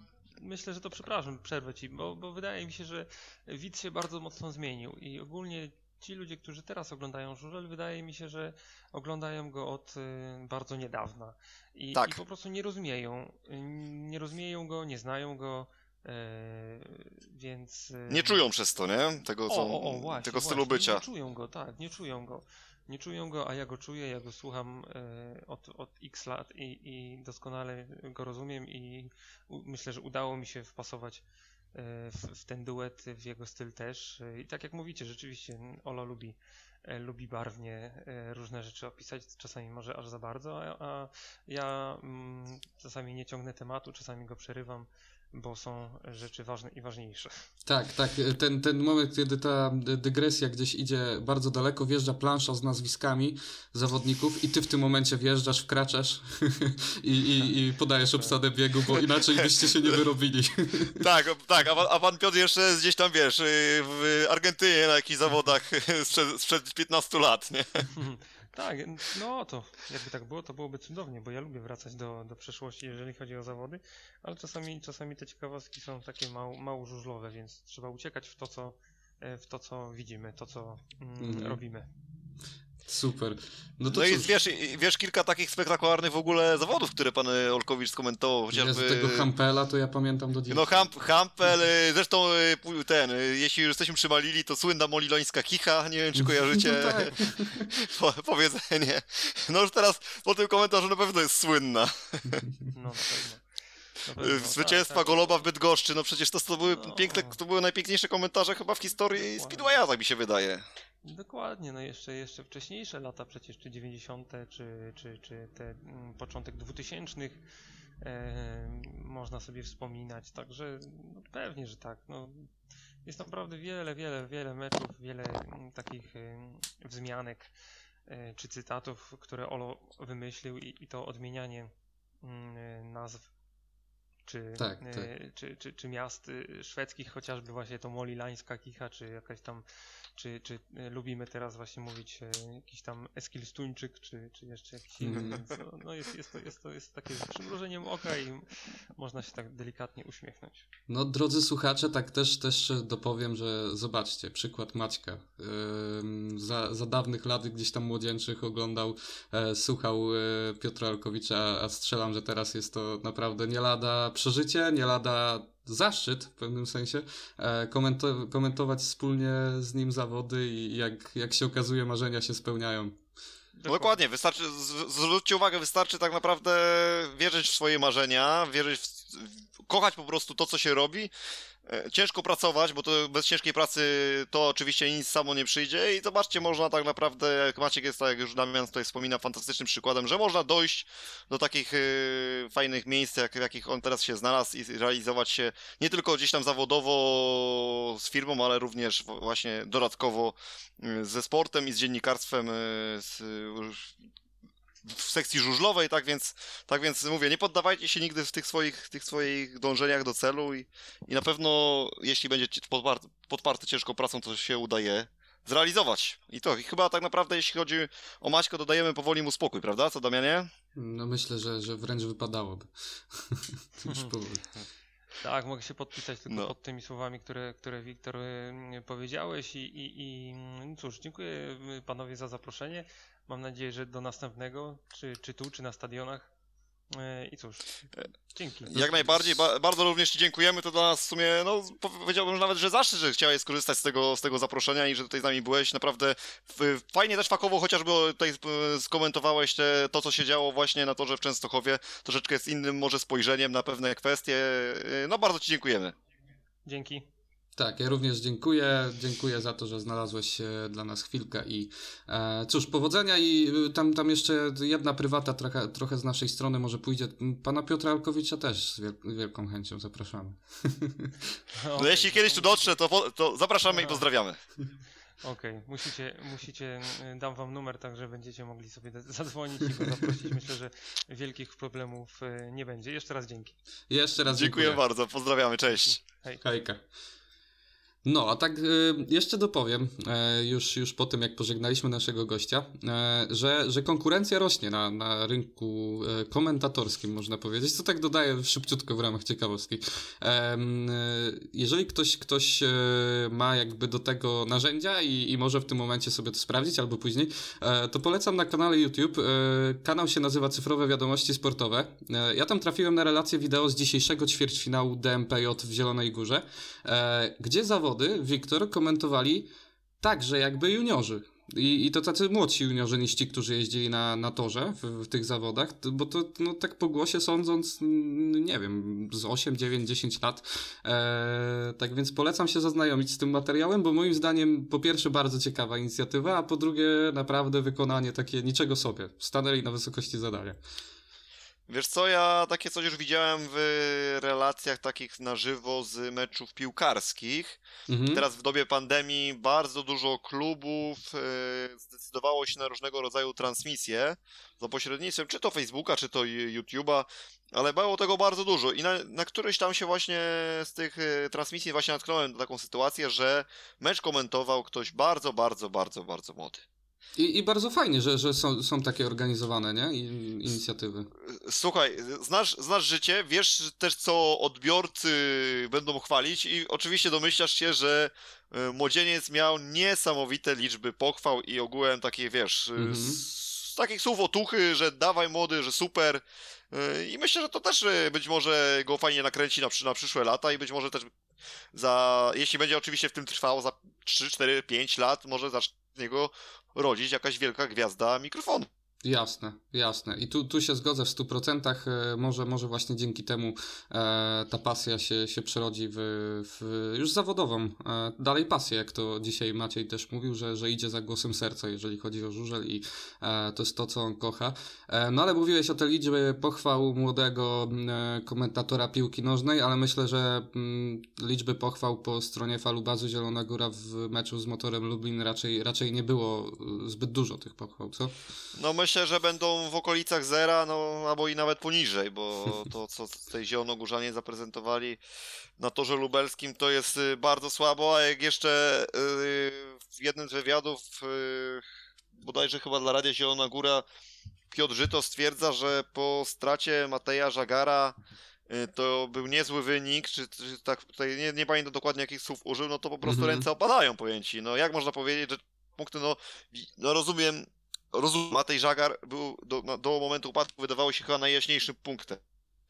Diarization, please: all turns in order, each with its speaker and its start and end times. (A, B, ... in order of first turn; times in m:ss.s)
0:00.4-0:18.4 A
0:11.9-0:12.2 B
0:18.1-0:21.0 B
0:19.5-0:47.5 A
0:47.6-1:01.0 C
0:57.4-0:58.4 A
0:59.4-1:00.0 B
1:01.0-1:07.9 B
1:07.9-1:21.9 A
1:21.2-1:21.6 C
1:22.8-1:24.3 C
1:23.9-1:29.3 B
1:28.5-1:30.9 C
1:30.5-1:42.5 B
1:36.2-1:37.7 C
1:42.7-1:43.4 A
1:44.0-1:45.4 A
1:44.2-1:50.6 B
1:46.7-1:47.4 A
1:49.1-1:49.8 A
1:51.0-1:57.4 A
1:58.0-2:02.5 A
2:03.0-2:07.5 A
2:08.1-2:13.3 A
2:14.2-2:19.6 A
2:14.6-2:15.1 C
2:20.2-2:30.6 A
2:25.0-2:25.4 C
2:30.9-2:52.9 C
2:53.6-2:54.0 A
2:53.7-3:01.1 B
3:01.6-3:23.9 B
3:24.8-3:40.5 B
3:40.7-3:44.5 C
3:43.8-3:44.1 A
3:45.2-3:56.3 A
3:56.9-3:57.7 A
3:58.3-3:59.2 A
3:58.7-4:15.9 B
4:16.6-4:17.0 A
4:17.6-4:31.3 C
4:31.5-4:32.7 A
4:31.8-4:34.4 B
4:33.7-4:34.0 A
4:35.2-4:43.5 A
4:43.9-4:44.8 C
4:44.3-4:46.0 B
4:45.7-4:46.4 A
4:46.4-4:46.8 C
4:48.0-5:19.5 C
5:20.0-5:40.6 C
5:41.7-5:47.6 B
5:47.9-5:48.2 C
5:48.1-6:06.6 B
6:07.2-6:11.1 C
6:11.2-6:31.1 B
6:22.8-6:23.2 C
6:31.7-6:38.7 B
6:39.0-7:08.1 C
7:08.6-7:15.0 B
7:15.6-7:21.6 B
7:22.2-7:23.8 B
7:24.5-7:28.0 B
7:28.5-7:42.2 B
7:33.0-7:33.5 C